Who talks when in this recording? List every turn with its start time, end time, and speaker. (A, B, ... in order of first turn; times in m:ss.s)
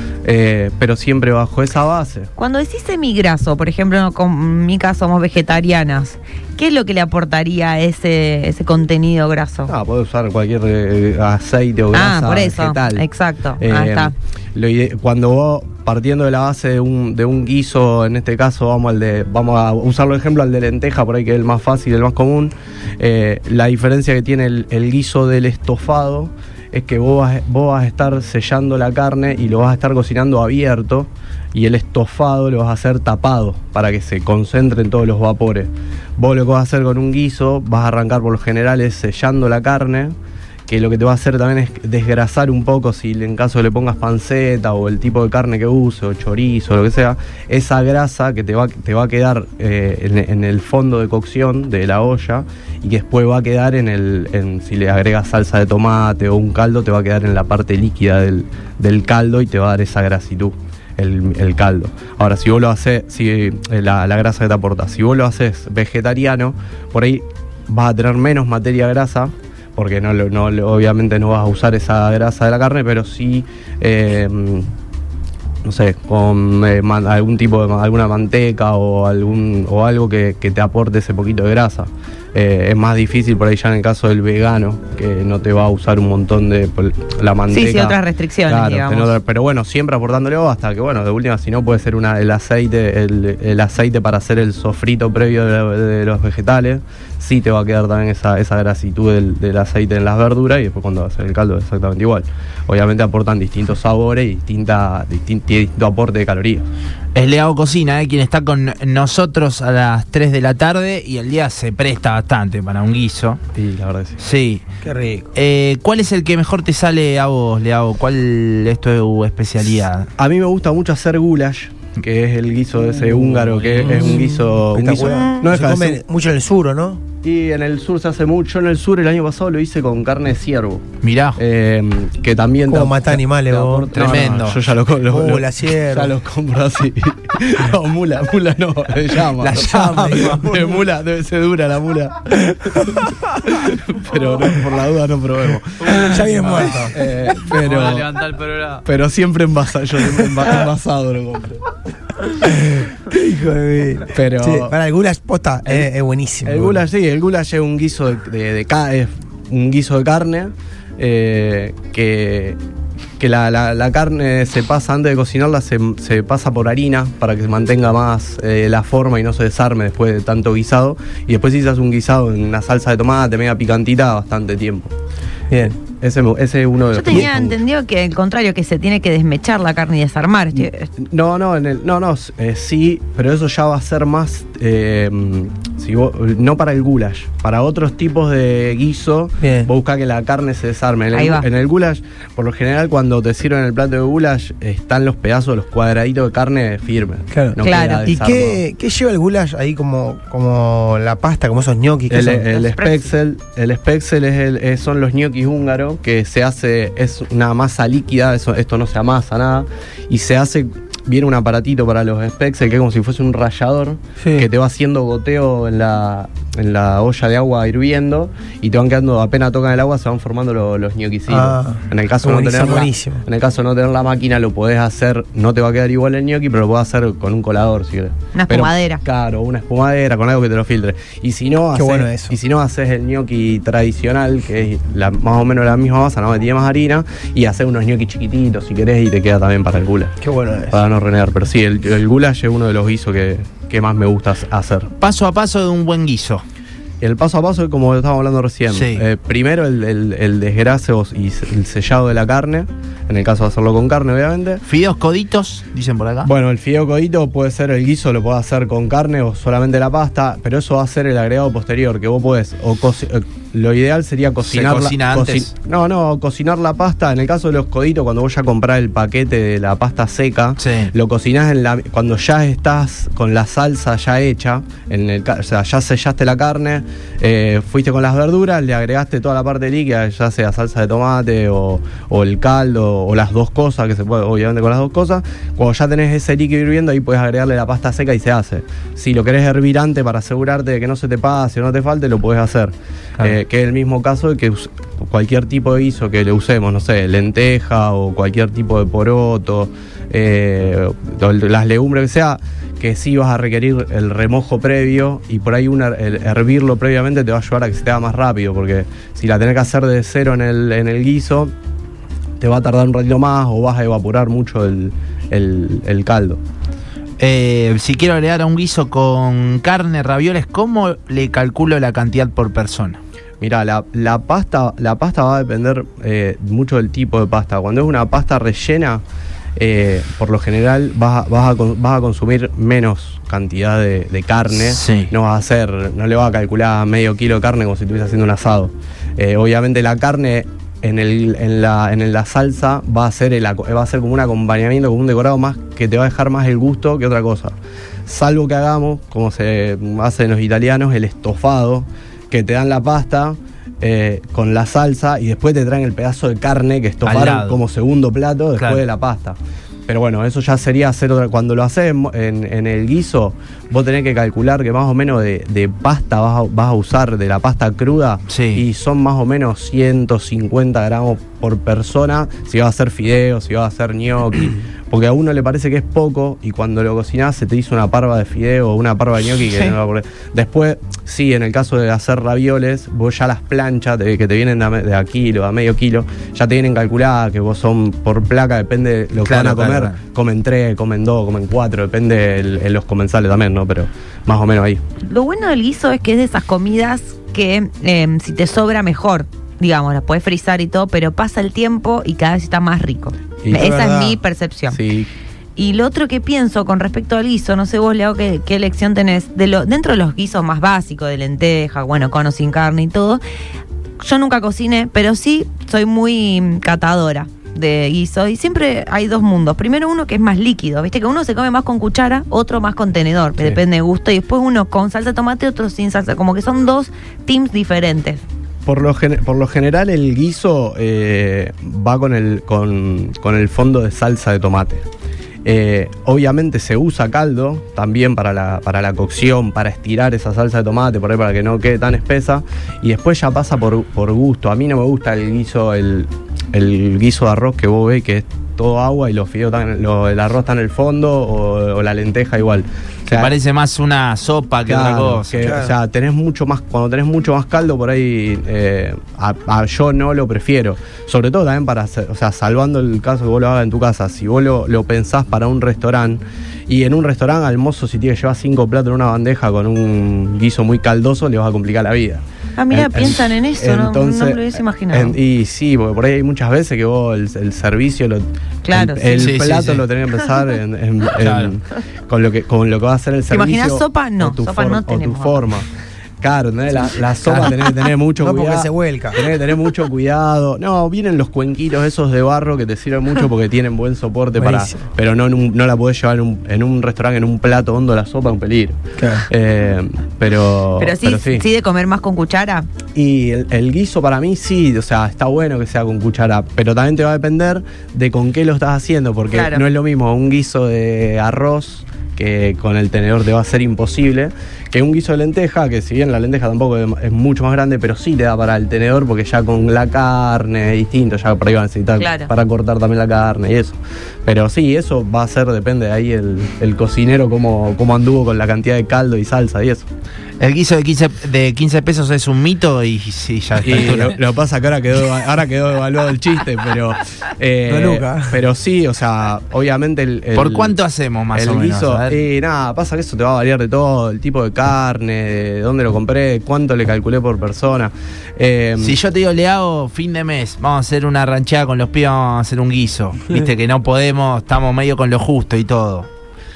0:00.2-0:02.3 A
0:02.4-0:09.7 B
0:09.7-0:13.0 A
0:11.9-0:14.1 B
0:13.6-0:40.2 A
0:40.7-1:14.7 A
1:15.6-1:46.7 A
1:27.5-1:29.1 B
1:47.2-1:53.4 C
1:53.5-1:54.2 A
1:54.2-1:54.6 C
1:54.8-1:55.3 D
1:55.3-2:00.1 C
2:00.2-2:06.0 A
2:03.8-2:07.0 D
2:07.2-2:10.8 A
2:11.0-2:11.4 C
2:11.4-2:22.9 A
2:12.7-2:13.9 D
2:13.9-2:14.6 C
2:15.1-2:16.1 D
2:19.4-2:20.5 C
2:23.4-2:28.1 A
2:25.8-2:26.9 E
2:26.0-2:26.9 D
2:27.5-2:28.8 E
2:28.8-2:31.6 A
2:32.4-2:36.8 D
2:34.1-2:34.7 A
2:36.4-2:42.6 A
2:43.2-2:54.9 A
2:55.7-2:57.6 A
2:56.9-3:00.9 B
3:00.6-3:18.6 A
3:09.4-3:09.7 D
3:11.1-3:11.5 B
3:17.3-3:22.6 D
3:17.6-3:18.0 B
3:22.1-4:00.1 A
3:22.6-3:23.0 B
3:34.2-3:34.5 D
3:41.3-3:43.2 D
3:48.3-3:49.0 B
3:51.7-3:52.4 D
4:00.2-4:00.8 D
4:00.7-4:04.9 A
4:05.0-4:06.4 C
4:07.0-4:14.6 A
4:08.7-4:09.0 C
4:14.6-4:16.3 C
4:16.2-5:11.5 A
4:24.5-4:25.5 C
4:30.6-4:30.9 C
5:12.4-5:16.4 A
5:17.2-5:23.0 C
5:23.4-5:29.0 A
5:29.6-6:34.8 A
5:34.6-5:35.1 C
5:57.0-5:57.6 C
5:58.6-5:58.8 C
6:08.3-6:08.6 C
6:29.2-6:30.0 C
6:35.1-6:44.8 B
6:43.4-6:44.0 A
6:43.5-6:44.2 D
6:44.7-6:45.1 A
6:45.6-6:53.2 B
6:54.0-7:08.2 B
7:08.6-7:14.8 A
7:15.4-7:33.3 A
7:33.1-7:35.6 C
7:34.7-8:05.7 A
7:35.4-7:35.7 D
7:52.6-7:55.2 B
7:58.6-7:59.4 B
7:59.2-7:59.8 C
8:01.2-8:01.5 C
8:03.3-8:05.4 B
8:06.2-8:21.5 A
8:08.2-8:09.3 D
8:14.4-8:14.8 D
8:19.0-8:19.2 D
8:20.8-8:22.7 B
8:22.9-8:49.9 A
8:29.3-8:29.6 B
8:42.0-8:42.3 B
8:50.4-8:54.2 C
8:53.6-9:00.7 A
8:57.6-8:58.4 D
9:00.4-9:02.2 C
9:01.3-9:09.0 A
9:08.8-9:16.1 C